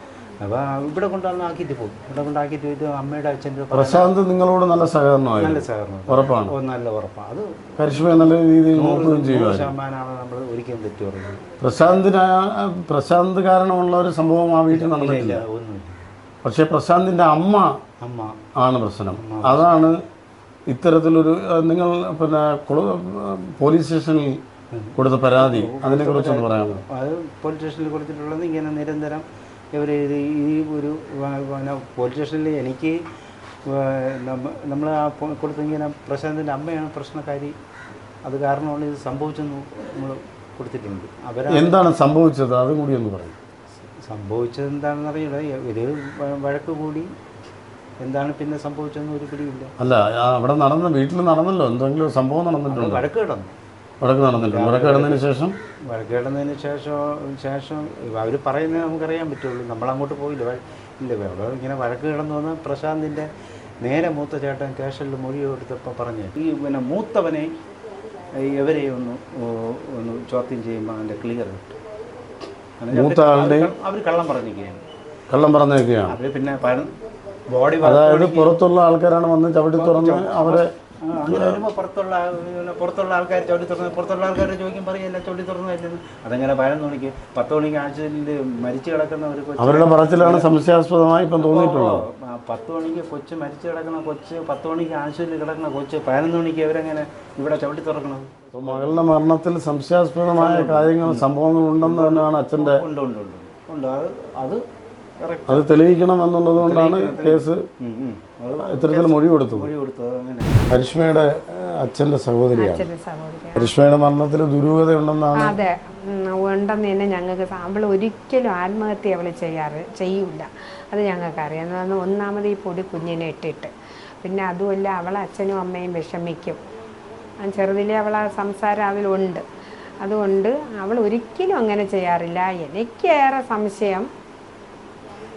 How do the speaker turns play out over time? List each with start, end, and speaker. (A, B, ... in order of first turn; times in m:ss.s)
0:00.4-0:04.1 A
0:03.7-0:06.5 B
0:05.4-0:11.4 A
0:07.8-0:09.8 B
0:11.6-0:15.4 B
0:14.7-0:16.1 A
0:16.4-0:17.7 B
0:18.0-0:18.4 A
0:18.6-0:20.0 B
0:19.1-0:19.7 A
0:20.7-0:24.4 B
0:24.7-0:33.0 A
0:25.0-0:26.8 B
0:33.7-0:37.6 A
0:38.2-0:41.8 A
0:41.5-0:43.4 B
0:43.8-0:47.1 A
0:48.0-0:49.7 A
0:49.8-0:53.0 B
0:52.7-0:53.6 A
0:54.0-0:55.6 B
0:54.4-0:55.2 A
0:55.9-1:03.3 A
1:03.8-1:07.5 A
1:08.4-1:11.8 A
1:12.8-1:14.8 A
1:12.9-1:13.7 B
1:15.3-1:16.2 B
1:16.1-1:16.9 A
1:17.5-1:18.5 A
1:17.8-1:20.7 B
1:19.8-1:30.5 A
1:21.3-1:21.6 B
1:29.6-1:32.0 B
1:31.4-1:39.0 A
1:38.5-1:42.8 B
1:40.4-1:41.3 A
1:41.8-1:44.6 A
1:45.2-1:45.7 A
1:45.5-1:47.6 B
1:46.6-1:50.6 A
1:48.6-1:49.7 B
1:50.7-1:52.9 B
1:52.6-1:53.7 C
1:53.6-1:55.6 B
1:55.4-2:03.7 C
2:04.2-2:06.6 C
2:07.4-2:09.4 C
2:10.0-2:14.1 C